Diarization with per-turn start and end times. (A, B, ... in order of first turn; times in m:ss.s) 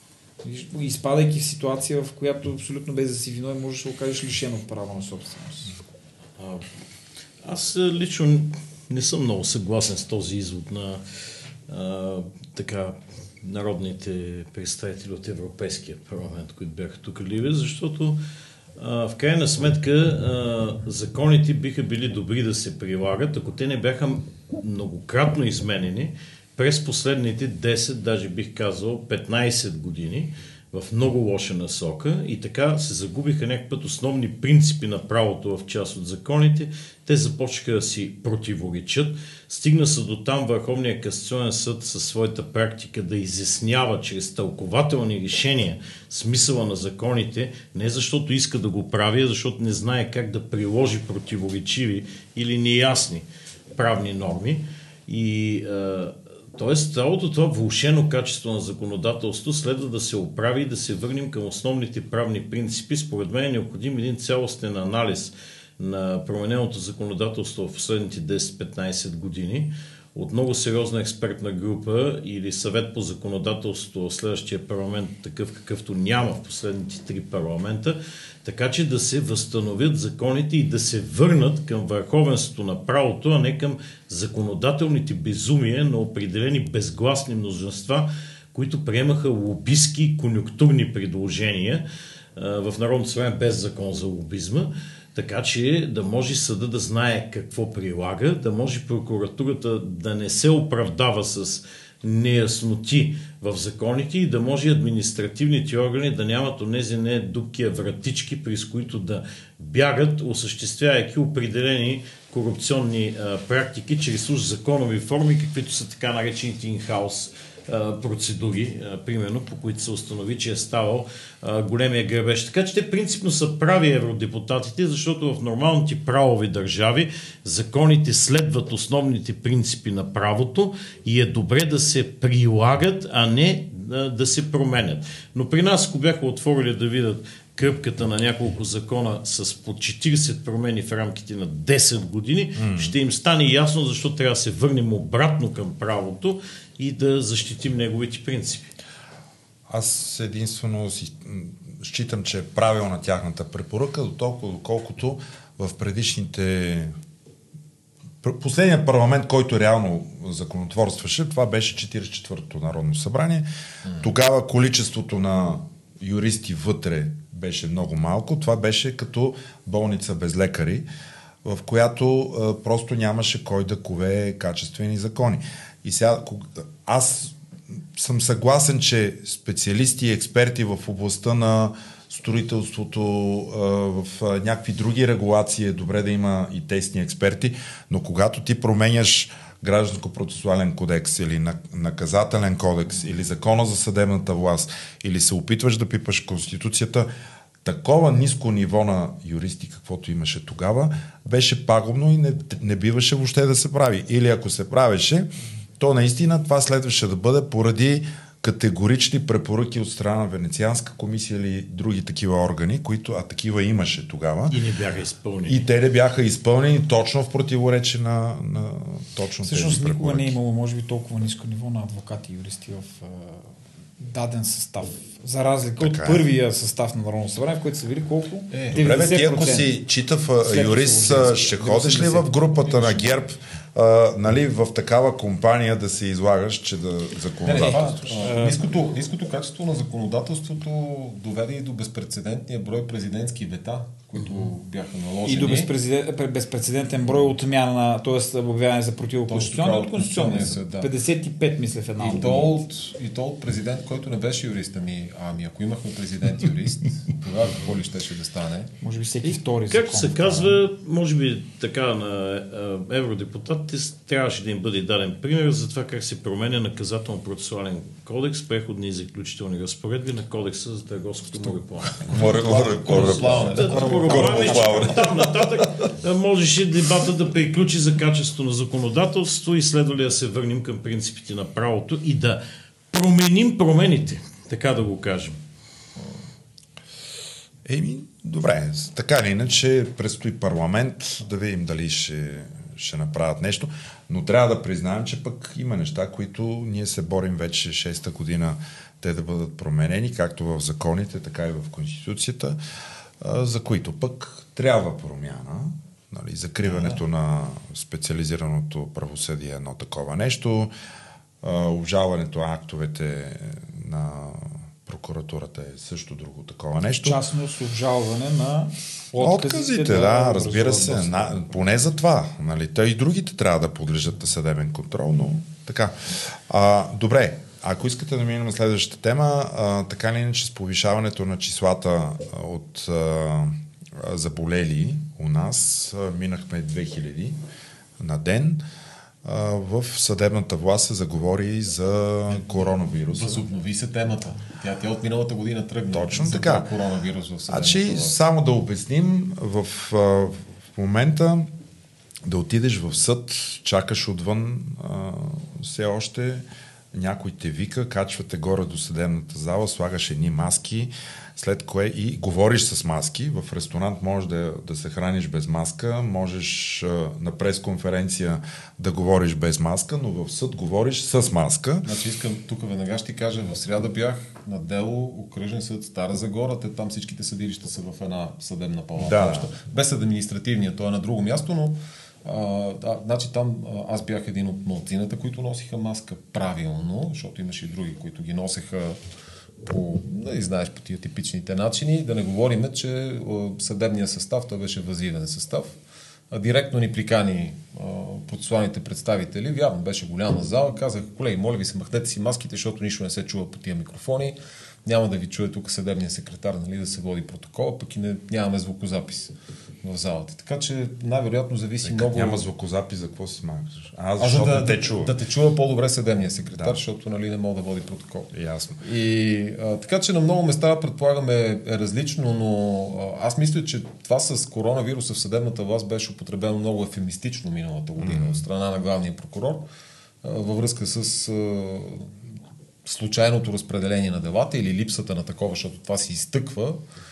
0:00.4-0:05.7 A
0:06.4-0:06.7 B
0:07.4-0:11.0 B
0:11.7-0:18.2 B
0:18.8-1:31.8 B
1:32.4-2:28.7 B
2:22.6-2:22.9 C
2:29.7-2:36.9 C
2:38.2-2:43.4 C
2:44.0-2:50.8 C
2:51.4-2:57.3 C
2:58.0-3:17.1 C
3:17.6-3:34.6 C
3:34.5-3:35.6 B
3:35.4-3:40.3 C
3:39.4-3:49.7 A
3:45.8-3:46.2 C
3:48.5-3:49.1 D
3:48.7-3:58.1 C
3:50.4-3:53.1 A
3:57.4-4:05.7 D
3:57.5-3:58.7 A
4:05.2-4:12.6 A
4:09.3-4:10.9 D
4:12.0-4:18.7 D
4:18.8-4:20.6 A
4:19.7-4:45.4 B
4:32.0-4:35.9 C
4:32.1-4:34.5 D
4:33.6-4:34.9 A
4:47.6-5:02.6 C
5:03.2-5:10.7 C
5:06.6-5:07.0 D
5:11.4-5:17.2 C
5:17.0-5:21.7 A
5:19.2-5:37.4 C
5:38.0-5:38.6 C
5:39.2-5:43.4 C
5:43.1-5:48.2 D
5:45.9-5:46.7 C
5:47.5-5:51.5 C
5:52.2-6:11.9 C
6:11.8-6:29.0 D
6:19.0-6:19.5 C
6:29.6-6:35.7 D
6:36.3-6:52.4 D
6:51.8-6:55.1 C
6:54.2-7:09.6 D
6:58.3-6:58.8 C
7:08.0-7:08.4 C
7:10.2-7:12.2 D
7:12.8-7:16.8 D